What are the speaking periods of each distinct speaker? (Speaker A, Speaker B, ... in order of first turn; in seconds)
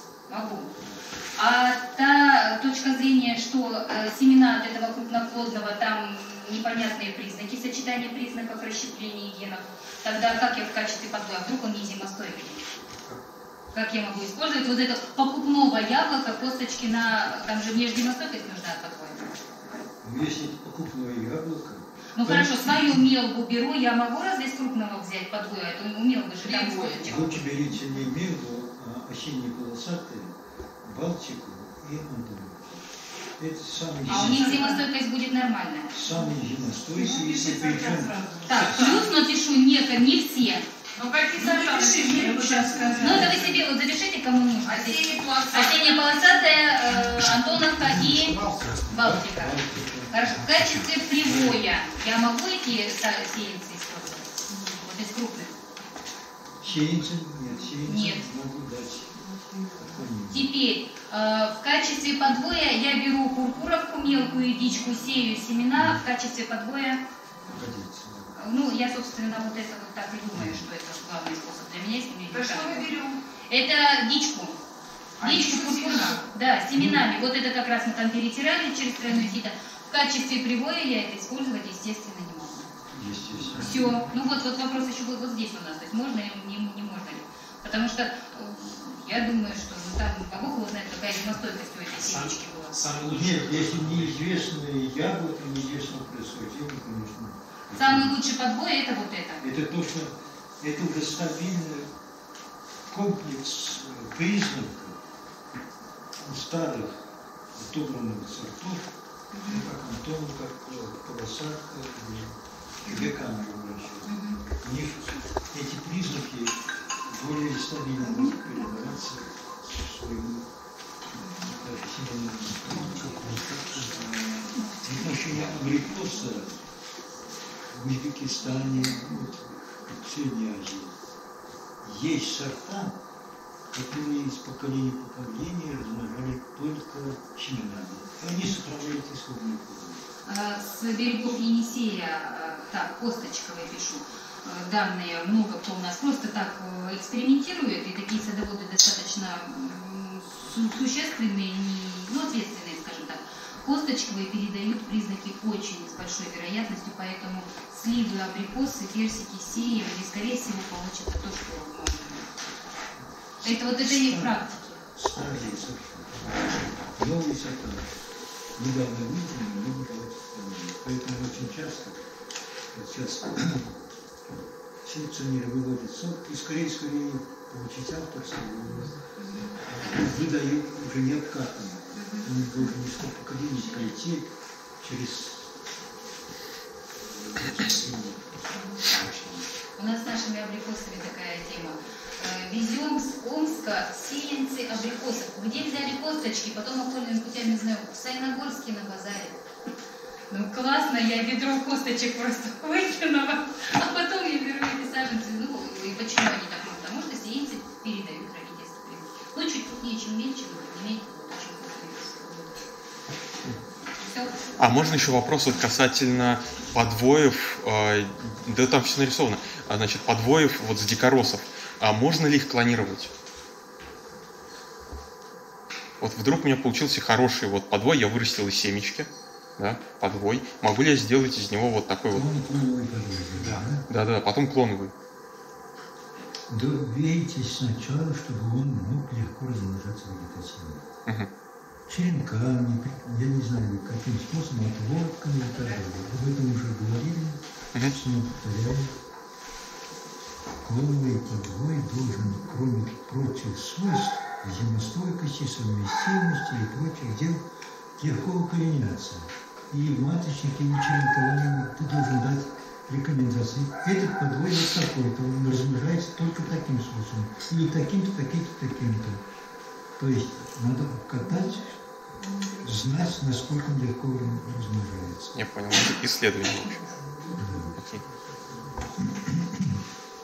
Speaker A: 0.3-0.7, 1.4-12.7, 13.7-19.3, 22.1-27.6, 34.1-36.0, 38.5-40.7, 41.3-55.6, 57.9-58.3, 60.3-67.0, 68.3-74.6, 75.2-82.7, 83.6-92.8, 97.7-99.5, 109.3-109.7, 112.8-113.1, 114.0-114.4, 118.1-118.3, 121.2-121.5, 124.5-124.8, 140.3-162.3, 163.4-164.8, 179.2-180.2, 181.9-182.3, 189.8-199.4, 200.3-212.7, 214.0-214.5
Speaker B: 12.9-13.2, 20.0-23.1, 27.0-34.8, 35.9-38.7, 47.4-51.7, 56.6-59.2, 59.7-60.5, 67.5-68.4, 70.3-70.6, 76.7-77.0, 82.9-84.1, 93.0-98.2, 99.4-101.9, 102.9-105.0, 106.2-107.0, 107.5-108.9, 109.4-120.5, 121.2-126.6, 127.7-131.0, 131.8-133.0, 133.7-140.0, 163.4-167.9, 168.6-172.0, 172.7-173.7, 174.8-179.0, 179.6-185.6, 187.0-189.4, 232.1-233.9, 236.5-240.9, 241.9-248.9, 250.6-269.2, 270.0-271.8, 272.6-275.4, 277.3-277.8, 278.9-279.8
Speaker C: 26.4-27.1, 34.1-34.8, 36.2-39.1, 41.0-43.6, 44.6-47.2, 59.3-59.8, 72.3-73.2, 75.2-76.3, 272.2-272.8
Speaker D: 91.9-94.5, 233.4-233.7
Speaker E: 214.6-223.1, 226.0-232.3, 233.9-234.9, 275.4-276.9, 277.7-278.0